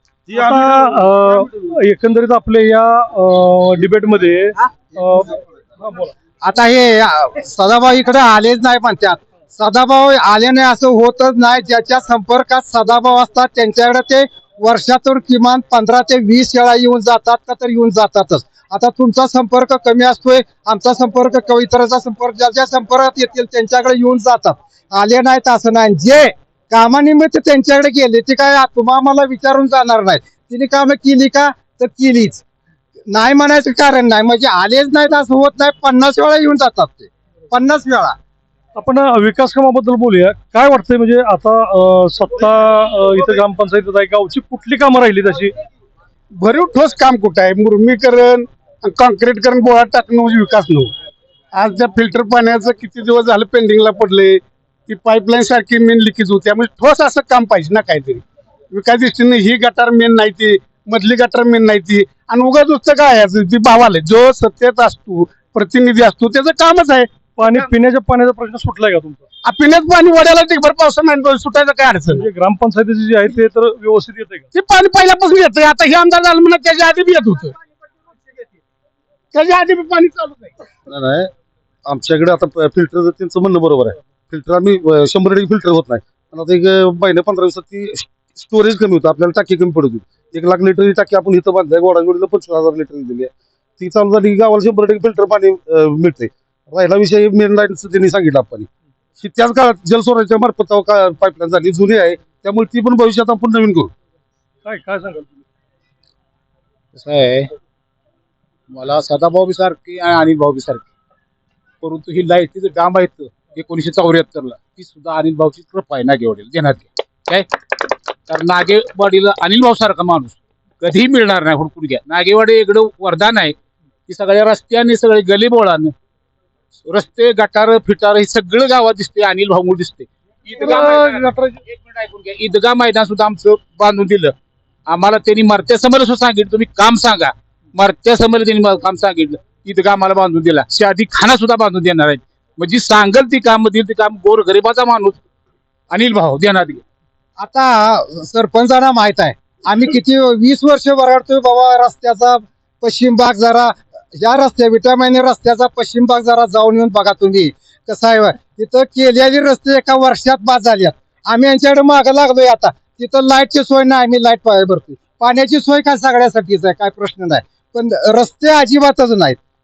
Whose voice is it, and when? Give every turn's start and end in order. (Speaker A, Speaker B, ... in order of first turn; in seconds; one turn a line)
Speaker A: 0.3-1.5
Speaker B: 0.3-6.1
Speaker C: 6.4-32.4
Speaker C: 33.1-38.2
Speaker B: 38.8-45.5
Speaker D: 46.4-50.9
Speaker D: 51.5-67.7
Speaker B: 67.4-69.3
Speaker D: 69.4-72.3
Speaker B: 72.1-74.5
Speaker D: 74.5-77.6
Speaker D: 79.3-80.5
Speaker A: 80.9-81.3
Speaker A: 81.9-98.7
Speaker A: 99.2-103.9
Speaker B: 104.7-105.4
Speaker E: 106.9-107.5
Speaker E: 108.7-110.9
Speaker E: 111.8-117.5
Speaker E: 118.3-123.5
Speaker E: 124.1-125.9
Speaker E: 126.9-134.3
Speaker B: 130.6-131.3
Speaker E: 134.9-145.2
Speaker E: 145.9-146.8
Speaker C: 147.4-169.4